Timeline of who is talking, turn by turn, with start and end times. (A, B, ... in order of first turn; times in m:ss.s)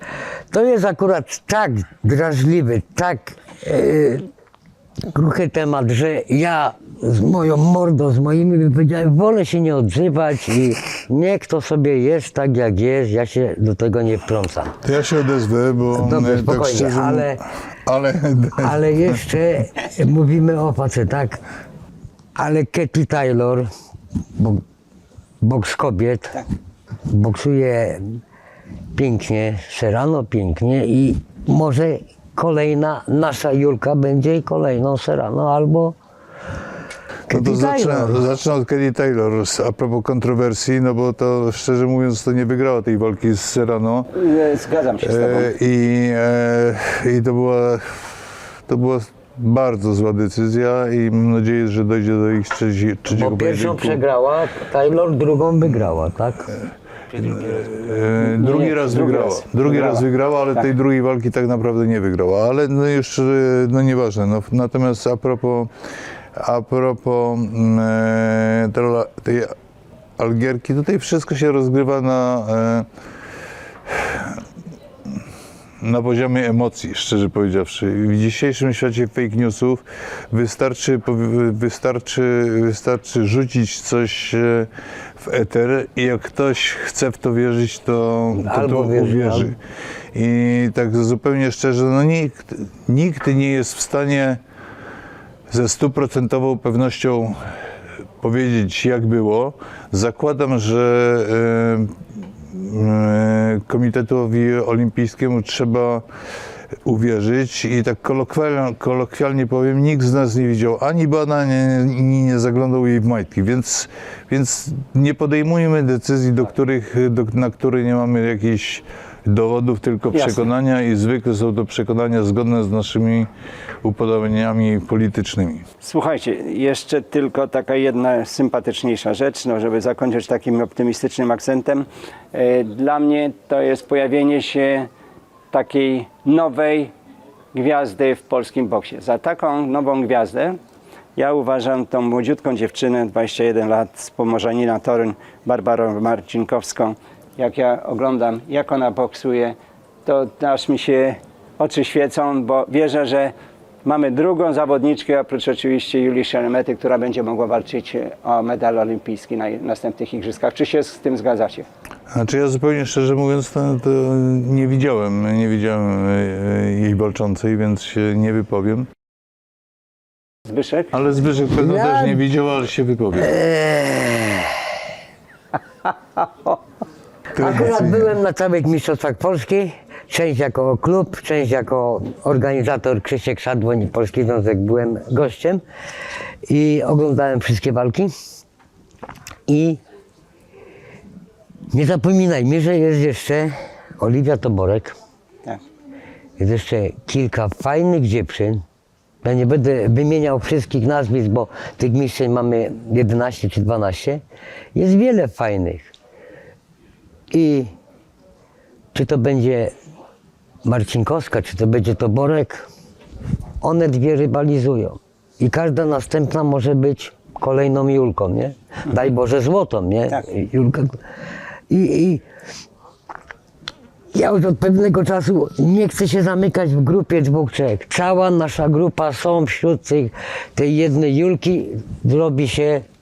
0:00.5-0:04.3 A
0:05.1-0:14.8 A
0:14.8-0:19.2 B
0:15.9-0:17.4 A
0:18.6-0:21.4 A
0:22.4-0:23.7 A
0:24.4-0:24.6 A
0:25.4-0:26.4 A
0:27.1-0:28.2 A
0:28.9-0:36.0 A
0:37.3-0:38.2 A
0:37.3-0:44.1 B
0:44.1-0:45.5 C
0:45.0-0:54.0 B
0:53.1-0:56.6 A
0:56.5-1:05.7 B
0:58.2-1:00.0 C
1:06.4-1:09.6 B
1:10.2-1:12.9 B
1:13.9-1:14.4 B
1:15.8-1:29.6 B
1:28.4-1:29.5 A
1:30.1-1:34.4 B
1:35.5-1:37.4 B
1:38.2-1:46.0 B
1:46.8-2:03.3 B
2:00.1-2:00.5 C
2:03.8-2:05.7 B
2:05.8-2:14.9 C
2:15.5-2:16.9 C
2:17.5-2:20.6 C
2:21.2-2:33.3 C
2:33.8-2:41.7 C
2:42.1-2:48.9 B
2:50.5-2:50.9 C
2:50.9-2:53.3 B
2:51.6-2:52.2 A
2:53.2-2:54.5 A
2:57.3-2:58.1 B
2:57.4-3:05.6 A
3:06.5-3:08.1 A
3:09.5-3:09.8 A
3:11.7-3:15.0 A
3:16.4-3:18.6 A
3:19.2-3:24.2 A
3:24.7-3:25.9 A
3:27.3-3:27.7 A
3:28.9-3:29.7 A
3:30.6-3:32.7 A
3:33.6-3:41.0 A
3:41.7-3:42.2 A
3:44.1-3:52.8 A